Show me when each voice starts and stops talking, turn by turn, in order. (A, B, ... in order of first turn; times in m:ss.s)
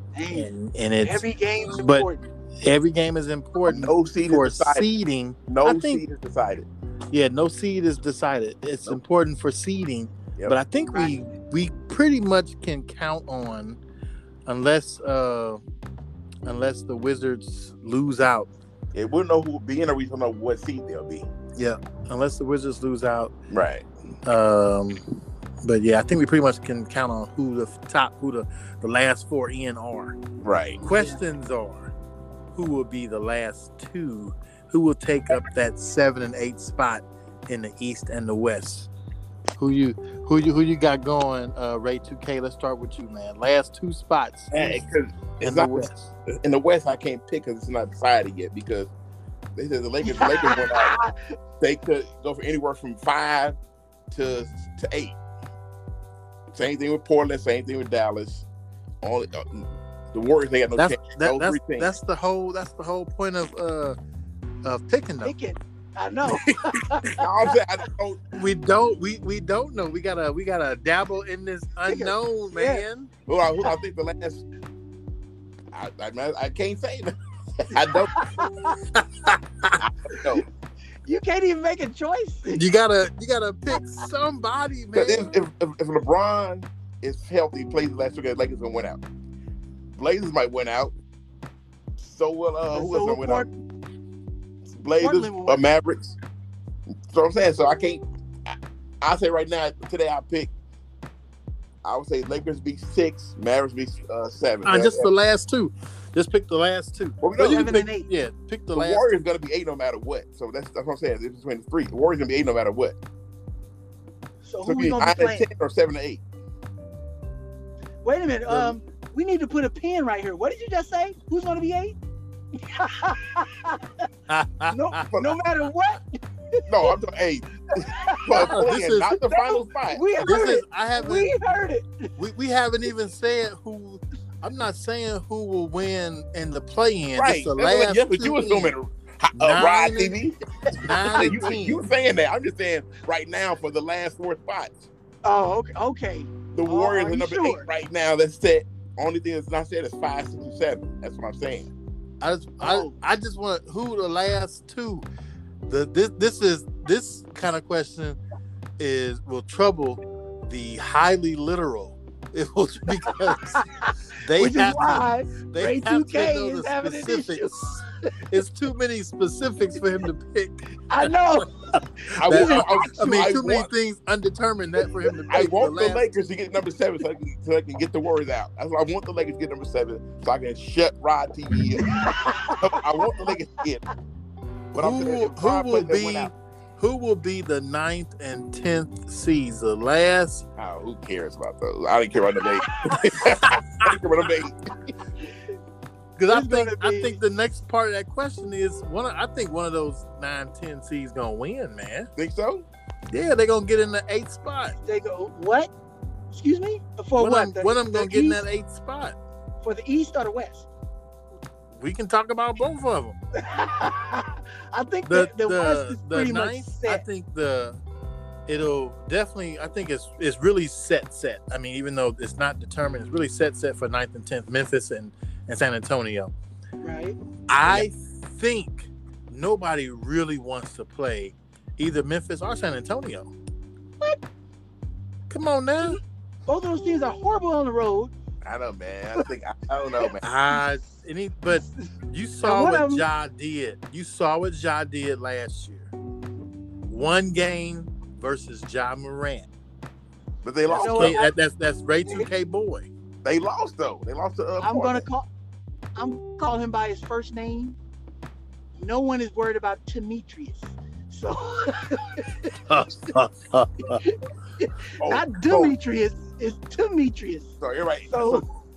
0:00.2-0:00.5 A
0:00.3-0:02.1 B
0:01.0-0:02.2 A
0:02.6-0:06.0 B
0:03.6-0:04.9 C
0:05.5-0:06.7 C
0:07.1-0:13.8 B
0:14.5-0:15.6 B
0:16.5-0:18.5 B
0:18.9-0:21.3 C
0:21.6-0:23.3 B
0:23.5-0:23.9 C
0:24.3-0:25.0 B
0:25.6-0:30.2 B
0:30.4-0:30.8 C
0:30.8-0:31.9 B
0:30.9-0:31.2 A
0:32.5-0:38.9 B
0:39.6-0:44.9 B
0:44.5-0:48.9 C
0:45.4-0:45.9 B
0:49.6-0:51.0 C
0:50.0-0:51.3 A
0:51.6-0:53.6 C
0:54.1-0:55.2 C
0:56.5-0:58.5 C
0:59.0-1:01.9 C
1:00.8-1:04.0 B
1:04.6-1:05.3 B
1:05.2-1:07.5 A
1:06.3-1:07.1 B
1:07.2-1:08.2 C
1:08.3-1:13.1 B
1:11.8-1:12.8 A
1:13.3-1:14.4 C
1:15.7-1:18.2 C
1:17.9-1:18.8 A
1:18.9-1:19.8 B
1:19.8-1:20.4 C
1:20.1-1:20.4 A
1:21.0-1:22.7 A
1:22.5-1:25.4 B
1:23.8-1:24.0 A
1:24.9-1:29.0 C
1:30.0-1:31.0 C
1:32.0-1:33.5 C
1:32.7-1:33.5 A
1:34.7-1:36.2 C
1:35.0-1:35.6 A
1:37.1-1:40.5 C
1:41.8-1:45.1 C
1:44.6-1:49.1 B
1:47.2-1:47.8 C
1:47.3-1:48.1 A
1:48.7-1:53.0 C
1:54.4-1:55.5 A
1:54.7-1:56.2 C
1:58.0-2:02.0 A
2:02.6-2:04.1 A
2:04.3-2:05.1 B
2:04.7-2:07.0 A
2:05.1-2:05.4 C
2:06.7-2:10.1 C
2:07.8-2:12.1 A
2:08.3-2:09.2 B
2:10.2-2:11.3 B
2:12.2-2:18.7 B
2:17.2-2:20.4 C
2:19.4-2:20.2 B
2:20.7-2:21.5 A
2:20.7-2:21.8 B
2:21.1-2:24.9 C
2:25.2-2:27.7 A
2:26.5-2:31.7 C
2:32.2-2:35.1 B
2:32.6-2:32.9 A
2:35.7-2:38.2 B
2:38.8-2:43.7 B
2:43.1-2:48.4 A
2:44.2-2:51.4 B
2:49.8-2:50.0 A
2:50.9-2:52.9 A
2:52.2-2:53.7 C
2:52.2-2:56.0 B
2:55.3-3:03.8 C
3:01.8-3:03.4 A
3:04.7-3:06.3 C
3:04.7-3:10.4 B
3:10.6-3:14.9 C
3:12.6-3:13.3 A
3:16.2-3:22.1 B
3:16.3-3:17.2 A
3:22.2-3:22.7 C
3:23.1-3:24.8 B
3:24.8-3:25.7 A
3:26.3-3:28.4 A
3:27.2-3:29.2 B
3:29.6-3:30.7 A
3:31.7-3:33.2 B
3:33.4-3:37.0 A
3:35.1-3:37.8 B
3:38.5-3:46.3 B
3:46.8-3:47.2 A
3:47.5-3:53.3 B
3:55.3-3:56.0 B
3:55.8-3:58.1 A
3:58.4-4:00.3 C
4:00.2-4:05.9 B
4:01.5-4:01.9 A
4:02.4-4:03.1 A
4:06.9-4:09.5 B
4:10.4-4:11.2 C
4:10.7-4:11.3 A
4:10.8-4:12.9 B
4:13.2-4:15.1 C
4:14.6-4:15.3 A
4:16.0-4:17.8 A
4:18.8-4:23.2 A
4:22.7-4:24.0 B
4:23.8-4:27.6 A
4:25.0-4:25.8 C
4:27.6-4:28.4 C
4:28.1-4:28.5 A